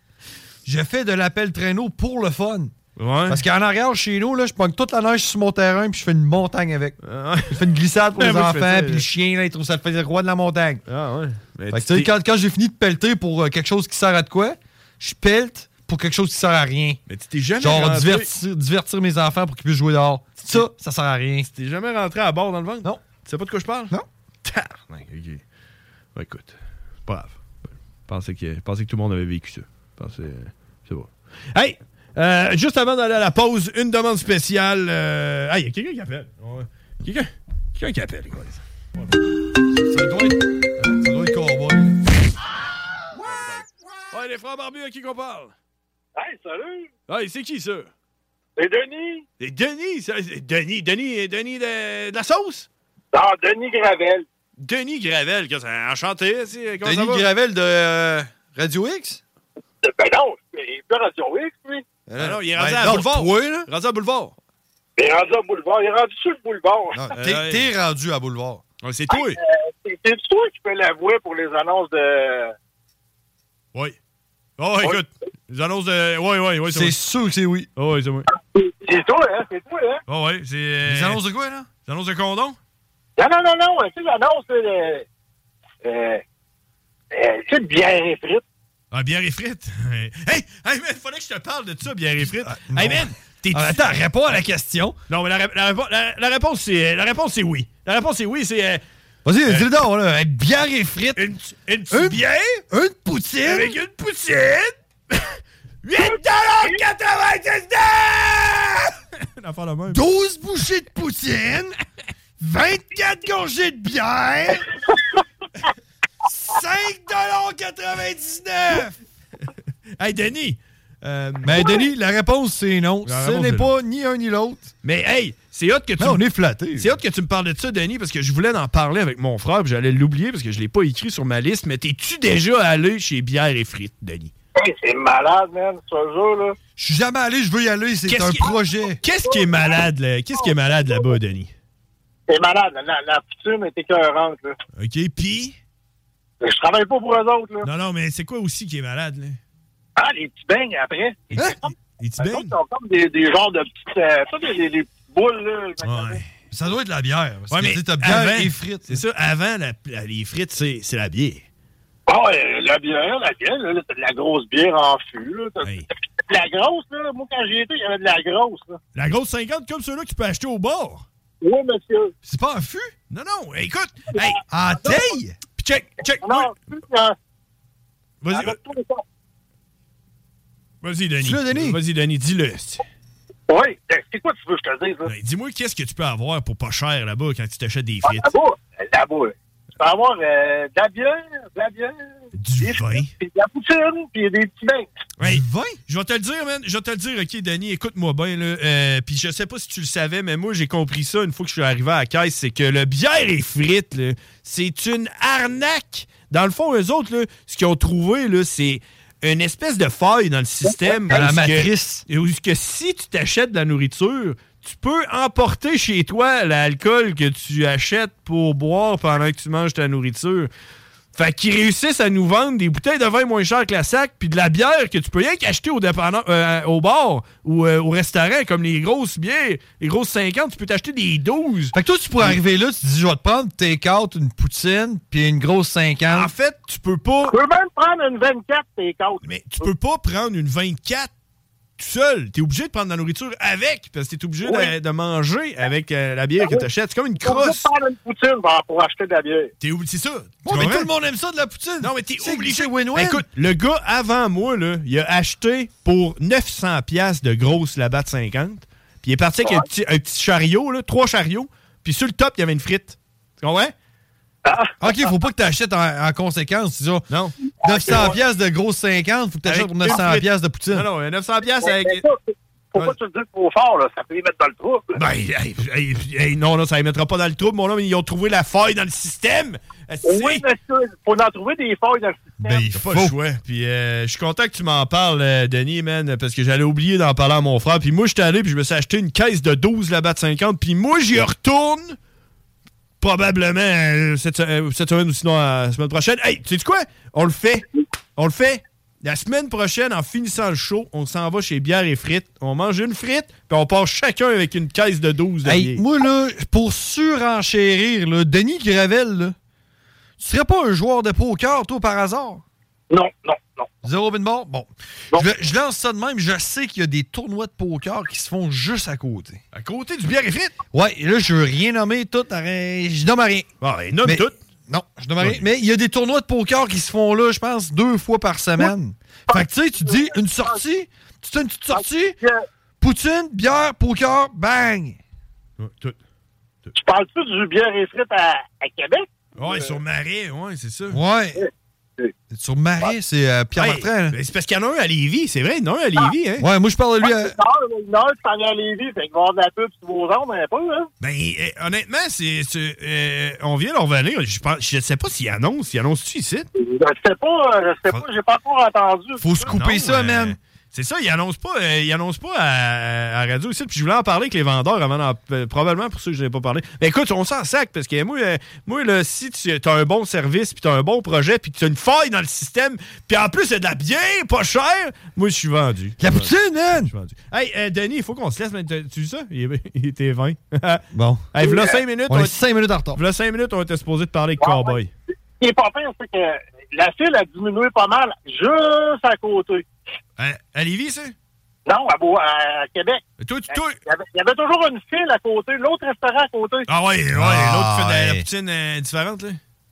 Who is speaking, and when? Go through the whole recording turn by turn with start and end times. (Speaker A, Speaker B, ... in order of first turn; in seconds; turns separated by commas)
Speaker A: 0.7-2.7, Speaker B: 3.0-3.4, Speaker A: 3.3-7.0, Speaker B: 7.0-9.1, Speaker A: 7.5-10.8, Speaker B: 10.9-12.1, Speaker A: 11.7-17.0, Speaker B: 17.1-18.3, Speaker A: 17.6-21.5, Speaker B: 21.5-23.9, Speaker B: 24.4-25.4, Speaker B: 26.2-27.4, Speaker B: 28.1-39.0, Speaker A: 39.8-42.0, Speaker B: 43.2-45.5, Speaker C: 46.2-46.9, Speaker B: 47.1-47.9, Speaker C: 48.6-49.2, Speaker B: 49.4-52.7, Speaker C: 53.1-54.3, Speaker B: 54.6-57.3, Speaker A: 56.8-59.2, Speaker C: 59.8-61.9, Speaker A: 62.1-63.7, Speaker B: 62.2-64.3, Speaker C: 65.0-67.0, Speaker A: 67.0-68.6, Speaker B: 67.2-67.7, Speaker B: 68.8-69.4, Speaker C: 69.1-72.5, Speaker B: 74.6-77.0, Speaker A: 76.7-77.7, Speaker B: 77.8-78.3, Speaker C: 78.5-80.0, Speaker B: 80.1-81.2, Speaker A: 80.9-81.7, Speaker B: 81.9-82.6, Speaker C: 83.2-85.1, Speaker C: 85.8-86.2, Speaker C: 87.1-88.4, Speaker B: 88.9-94.4, Speaker A: 92.2-95.0, Speaker B: 95.1-98.8, Speaker A: 99.2-101.3, Speaker B: 101.2-102.6, Speaker A: 101.9-103.7, Speaker B: 103.4-110.0, Speaker C: 106.0-106.8, Speaker A: 109.9-111.8, Speaker A: 112.4-114.7, Speaker A: 116.2-119.0, Speaker B: 120.0-121.8, Speaker A: 121.4-124.7, Speaker B: 123.0-123.7, Speaker B: 124.8-126.2, Speaker A: 126.0-126.9, Speaker B: 126.8-134.3, Speaker C: 134.6-136.6, Speaker A: 136.8-139.0, Speaker B: 138.1-141.5, Speaker C: 139.2-139.8, Speaker C: 140.4-141.2, Speaker C: 142.3-144.6, Speaker B: 144.8-145.6, Speaker C: 146.4-147.7, Speaker B: 147.6-149.4, Speaker C: 150.0-151.7, Speaker B: 151.3-152.6, Speaker C: 152.2-156.2, Speaker B: 155.8-156.2, Speaker A: 156.5-159.0, Speaker B: 157.5-161.4, Speaker C: 162.1-165.7, Speaker B: 165.6-165.9, Speaker C: 166.3-168.8, Speaker B: 168.9-171.1, Speaker C: 171.4-172.1, Speaker A: 172.2-172.9, Speaker B: 173.1-174.4, Speaker C: 174.1-175.0, Speaker A: 174.5-175.4, Speaker B: 175.6-176.5, Speaker C: 176.2-177.2, Speaker B: 178.2-178.6, Speaker C: 178.3-179.0, Speaker B: 180.8-182.8, Speaker A: 181.2-181.8, Speaker C: 183.5-185.1, Speaker B: 185.1-188.3, Speaker C: 188.0-192.0, Speaker B: 192.4-193.1, Speaker C: 192.6-194.9, Speaker B: 195.2-220.5, Speaker A: 195.2-195.8, Speaker C: 210.7-211.1, Speaker A: 211.1-212.0, Speaker B: 221.1-232.4, Speaker A: 231.8-236.3, Speaker B: 236.1-237.4, Speaker C: 237.2-239.7, Speaker B: 239.2-241.1, Speaker B: 241.8-247.7, Speaker C: 244.4-244.7, Speaker C: 246.4-246.7, Speaker C: 247.2-249.5, Speaker B: 249.6-250.9, Speaker A: 250.4-253.2, Speaker B: 251.8-263.7, Speaker C: 264.4-264.7, Speaker A: 264.8-267.1, Speaker B: 267.1-267.4, Speaker A: 267.6-270.9, Speaker C: 267.6-268.1, Speaker B: 267.9-268.1, Speaker B: 269.5-272.0, Speaker C: 271.6-275.0, Speaker B: 275.0-280.4, Speaker C: 280.0-282.6, Speaker A: 282.4-283.1, Speaker B: 282.6-292.0, Speaker B: 293.0-305.8, Speaker A: 305.4-309.4, Speaker A: 310.2-312.4, Speaker C: 312.9-313.7, Speaker A: 313.8-319.4, Speaker B: 319.5-320.6, Speaker A: 320.7-323.5, Speaker B: 323.6-324.3, Speaker A: 324.1-332.2, Speaker B: 325.2-325.4, Speaker C: 329.3-330.6, Speaker C: 331.7-332.4, Speaker A: 332.8-335.0, Speaker B: 335.6-336.0, Speaker C: 336.8-339.8, Speaker B: 339.4-341.0, Speaker A: 340.9-341.4, Speaker C: 341.4-342.1, Speaker A: 342.3-344.2, Speaker B: 343.6-346.5, Speaker A: 346.4-347.4, Speaker C: 347.0-350.9, Speaker B: 351.0-356.5, Speaker C: 356.6-359.4, Speaker A: 359.2-360.4, Speaker B: 359.4-382.4, Speaker A: 376.0-376.9, Speaker A: 380.9-381.2, Speaker C: 381.4-381.8, Speaker A: 382.1-383.0, Speaker B: 382.9-384.9, Speaker C: 384.4-384.8, Speaker C: 385.4-389.6, Speaker B: 390.2-391.1, Speaker C: 391.7-396.7, Speaker B: 393.2-393.8, Speaker B: 396.7-399.4, Speaker A: 397.1-398.2